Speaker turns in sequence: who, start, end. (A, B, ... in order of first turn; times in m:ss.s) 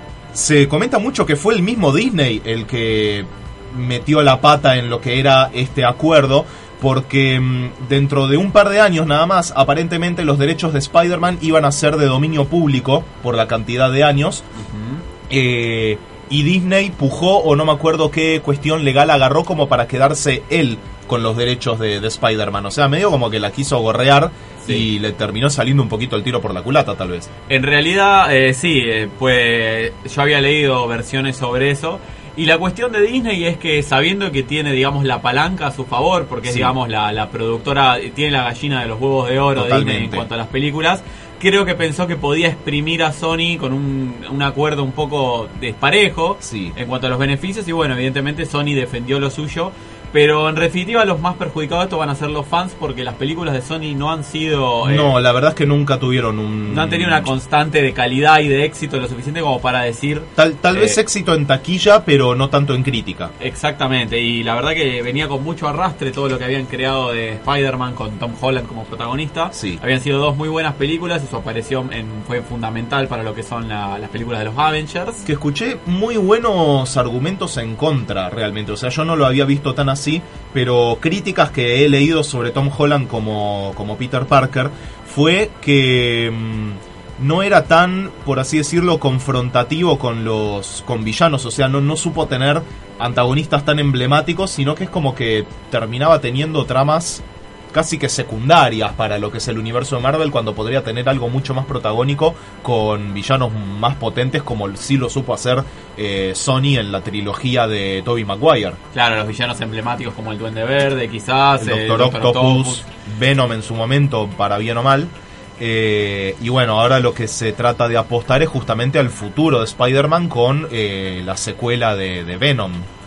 0:00.3-0:14.4 A
0:14.6-0:15.0 B
0:15.3-0:27.3 A
0:27.5-0:55.1 B
0:36.5-0:36.7 A
0:39.6-0:40.3 A
0:46.4-0:46.8 A
0:54.8-0:57.3 A
0:56.7-1:01.0 B
1:00.4-1:03.3 A
1:03.4-1:15.2 B
1:09.5-1:09.8 A
1:15.3-1:48.8 A
1:48.9-1:52.8 B
1:51.6-2:02.9 A